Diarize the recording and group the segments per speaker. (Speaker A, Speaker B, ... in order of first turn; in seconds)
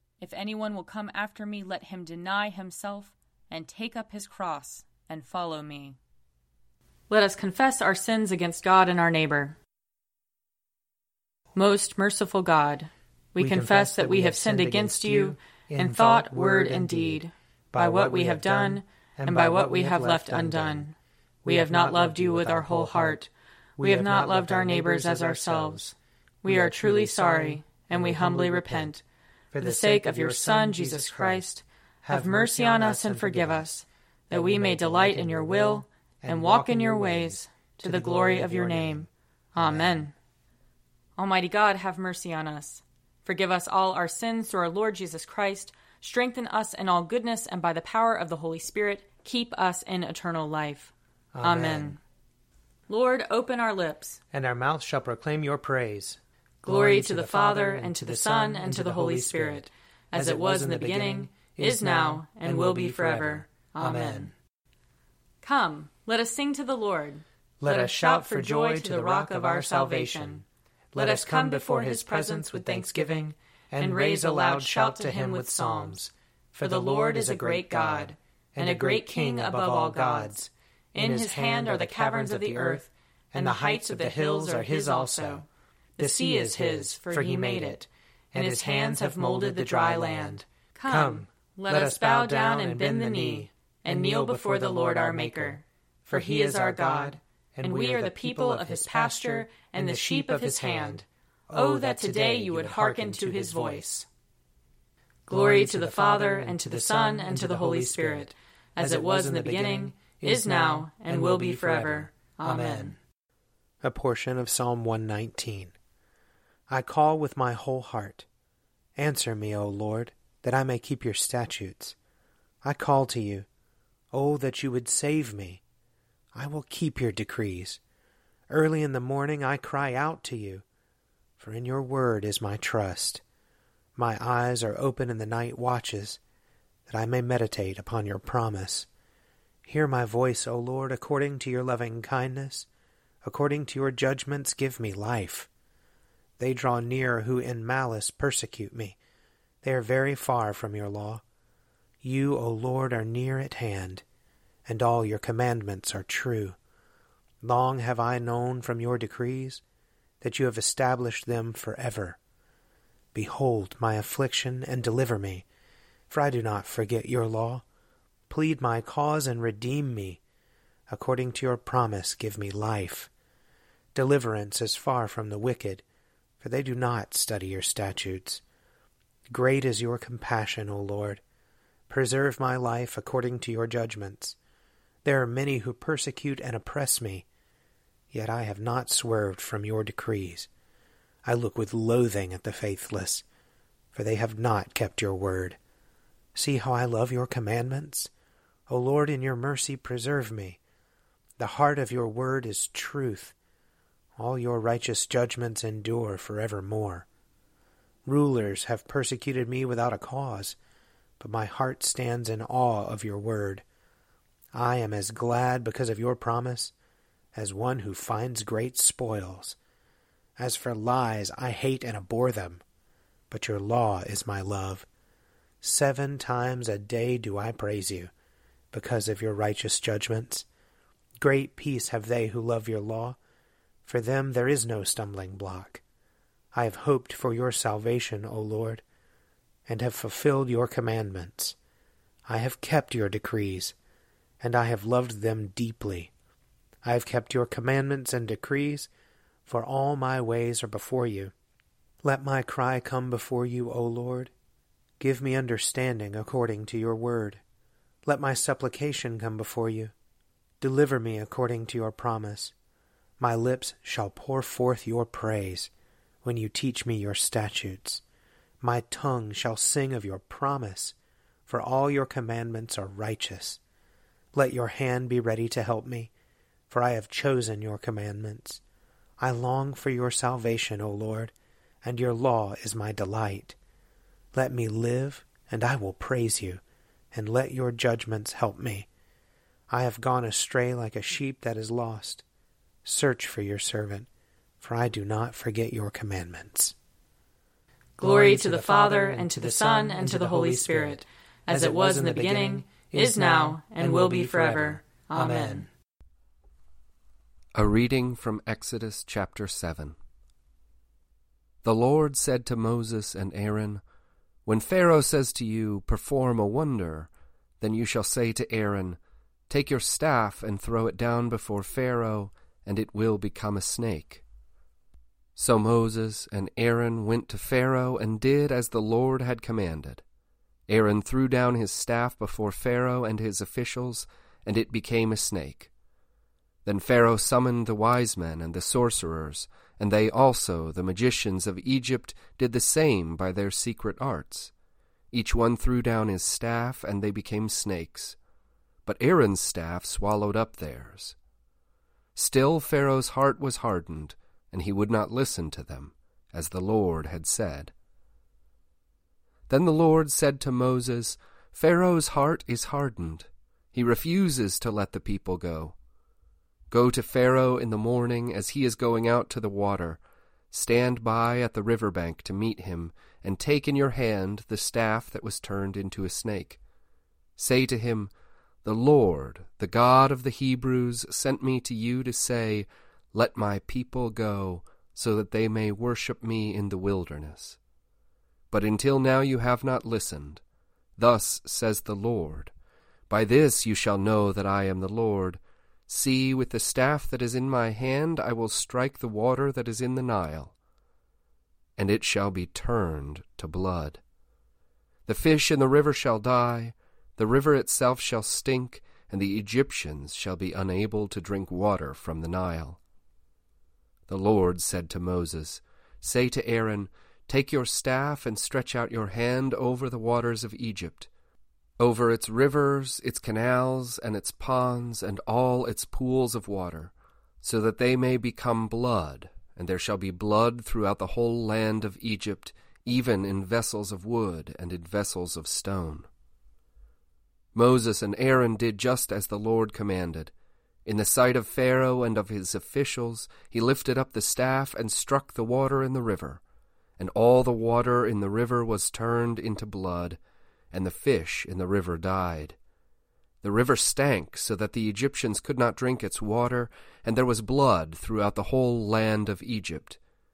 Speaker A: 0.2-6.0, 7.1-9.6, 11.6-20.9, 21.5-23.2, 23.8-29.0, 29.6-40.1, 41.2-52.0, 52.9-54.2, 56.6-64.3, 65.4-70.4, 71.0-76.0, 76.6-80.4, 80.9-85.5, 86.0-104.0, 105.3-113.0, 298.0-305.7
Speaker B: 13.4-20.9, 21.4-25.9, 26.4-29.0, 29.5-31.5, 32.0-33.7, 34.3-40.1, 51.3-52.0, 54.3-64.3, 67.6-85.4, 86.0-104.1, 105.3-113.0, 113.8-115.7, 116.7-118.3, 119.0-122.0, 122.6-123.5, 124.1-125.6, 126.3-127.8, 128.5-130.7, 131.4-133.2, 134.0-136.2, 136.9-138.9, 139.7-142.7, 143.2-145.5, 146.4-149.0, 149.6-151.2, 152.0-154.0, 154.7-156.6, 157.4-159.6, 160.2-162.2, 163.1-165.5, 166.1-167.6, 168.3-170.2, 170.9-173.1, 173.9-175.8, 176.4-178.4, 179.3-181.2, 181.9-184.4, 185.0-187.3, 188.1-190.5, 191.2-193.2, 193.9-195.6, 196.3-198.1, 198.7-200.6, 201.4-203.3, 204.2-207.1, 208.1-210.6, 211.2-213.6, 214.5-216.7, 217.3-219.6, 220.4-222.6, 223.3-224.9, 225.6-228.1, 228.7-230.5, 231.2-233.2, 233.8-235.8, 236.5-238.8, 239.7-241.6, 242.3-243.8, 244.4-246.1, 246.8-248.9, 249.5-251.3, 252.0-254.3, 255.0-257.4, 258.1-259.9, 260.6-262.5, 263.2-265.7, 266.2-268.0, 268.6-270.9, 271.5-273.6, 274.3-276.1, 276.7-278.6, 279.2-283.6, 284.3-286.6, 287.1-288.9, 289.7-292.2, 292.8-294.1, 294.6-296.8, 298.0-305.7
Speaker C: 307.6-310.0, 311.6-313.8, 314.5-319.0, 319.5-324.2, 325.4-330.0, 330.7-335.7, 336.6-344.5, 345.1-348.2, 348.9-351.2, 352.1-357.7, 359.5-365.8, 366.7-370.0, 370.5-376.6, 377.4-378.1, 378.6-387.6, 388.5-390.4, 391.0-392.5, 393.1-400.5, 401.8-404.0, 405.1-412.8, 414.1-421.1, 421.8-436.1, 437.5-440.3, 440.9-446.4, 447.0-450.2, 450.7-452.6, 453.4-460.0